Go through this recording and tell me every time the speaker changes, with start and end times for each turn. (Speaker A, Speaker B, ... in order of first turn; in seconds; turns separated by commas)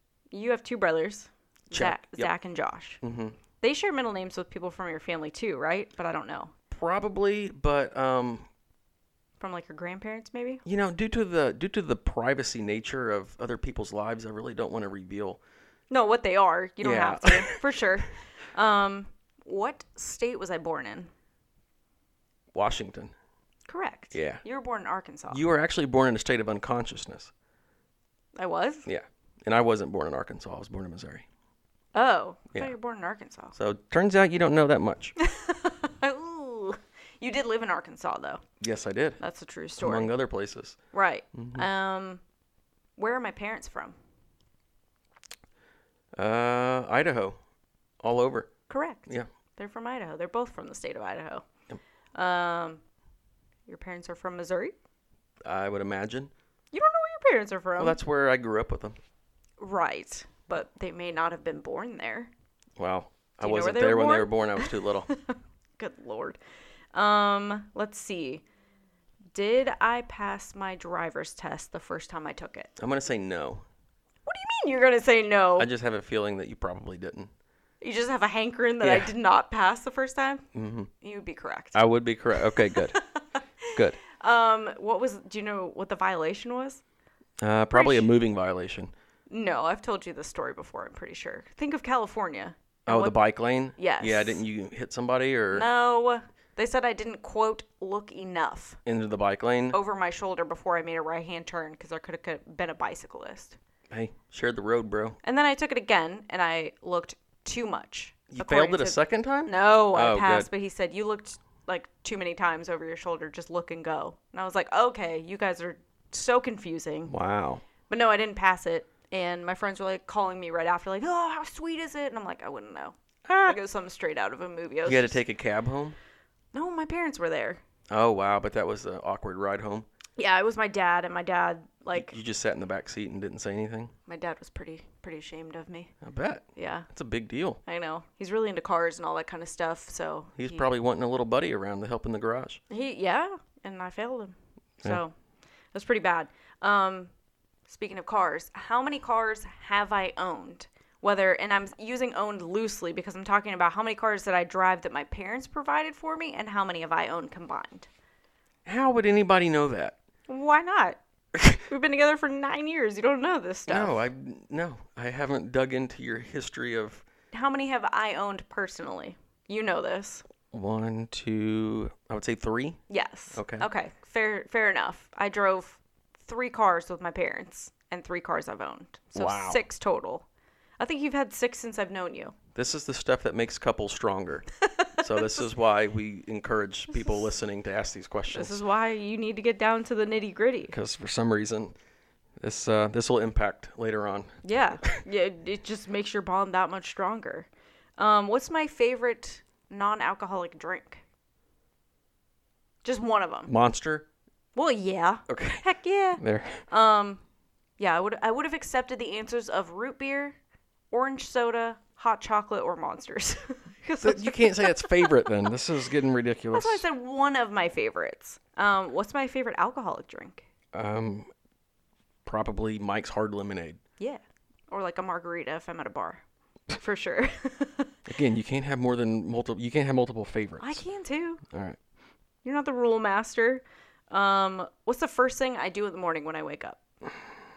Speaker A: 0.3-3.0, Speaker B: 1.7-2.3, Speaker B: 3.0-3.4, Speaker A: 3.6-6.5, Speaker B: 6.7-8.4, Speaker A: 9.4-10.6, Speaker B: 10.6-15.4, Speaker A: 15.9-21.1, Speaker B: 16.8-17.8, Speaker B: 22.5-23.1, Speaker A: 23.7-25.4, Speaker B: 24.1-24.4, Speaker B: 25.3-27.3, Speaker A: 28.4-28.9, Speaker B: 28.9-31.2, Speaker A: 31.9-33.5, Speaker B: 33.5-35.1, Speaker A: 35.2-38.4, Speaker B: 38.6-39.2, Speaker A: 39.2-40.1, Speaker B: 39.8-40.8, Speaker A: 40.9-42.2, Speaker B: 41.3-41.7, Speaker A: 43.0-43.9, Speaker B: 46.1-47.4, Speaker B: 48.0-48.5, Speaker A: 48.7-51.5, Speaker A: 52.1-52.8, Speaker A: 53.7-54.7, Speaker B: 55.4-56.3, Speaker A: 56.7-58.0, Speaker B: 57.8-59.0, Speaker A: 59.6-62.3, Speaker B: 62.8-65.1, Speaker A: 63.4-66.4, Speaker A: 66.9-68.4, Speaker A: 69.3-72.7, Speaker B: 72.8-73.7, Speaker A: 74.2-75.7, Speaker B: 75.6-77.3, Speaker A: 77.8-80.4, Speaker B: 78.8-79.1, Speaker B: 80.5-80.9, Speaker A: 81.0-86.8, Speaker B: 81.8-83.0, Speaker B: 87.4-88.9, Speaker A: 87.7-88.1, Speaker A: 89.3-93.2, Speaker B: 92.9-95.7, Speaker A: 93.8-94.4, Speaker A: 95.5-98.8, Speaker B: 98.8-99.8, Speaker A: 99.7-103.6, Speaker B: 103.9-105.2, Speaker A: 105.2-117.1, Speaker B: 108.3-110.5, Speaker B: 117.1-117.6, Speaker A: 117.9-125.2, Speaker B: 123.3-123.6, Speaker B: 124.8-126.0, Speaker A: 126.5-127.6, Speaker B: 127.9-129.9, Speaker A: 130.2-132.1, Speaker B: 131.9-133.9, Speaker A: 134.1-135.9, Speaker B: 136.0-137.6, Speaker A: 136.6-136.9, Speaker A: 137.7-140.7, Speaker B: 140.4-142.6, Speaker A: 142.7-145.1, Speaker A: 145.7-147.1, Speaker A: 147.7-157.9, Speaker B: 158.7-159.9, Speaker A: 160.3-161.0, Speaker B: 161.3-161.6, Speaker A: 161.6-164.1, Speaker B: 163.7-167.0, Speaker A: 167.3-170.2, Speaker B: 170.5-172.8, Speaker A: 172.9-180.3, Speaker B: 173.3-173.7, Speaker B: 179.1-179.6, Speaker A: 180.8-182.3, Speaker B: 182.5-188.6, Speaker A: 184.8-185.4, Speaker A: 188.3-190.8, Speaker B: 190.7-191.7, Speaker B: 192.4-194.9, Speaker A: 194.4-201.0, Speaker A: 202.8-203.5, Speaker B: 203.5-204.1, Speaker A: 204.6-207.2, Speaker B: 205.3-205.6, Speaker B: 206.2-206.6, Speaker A: 207.8-210.3, Speaker A: 210.9-215.2, Speaker B: 214.0-216.8, Speaker A: 216.5-220.4, Speaker B: 220.7-221.3, Speaker B: 222.2-223.8, Speaker A: 224.0-227.9, Speaker B: 228.1-230.8, Speaker A: 230.6-231.4, Speaker B: 231.4-231.8, Speaker A: 232.4-236.8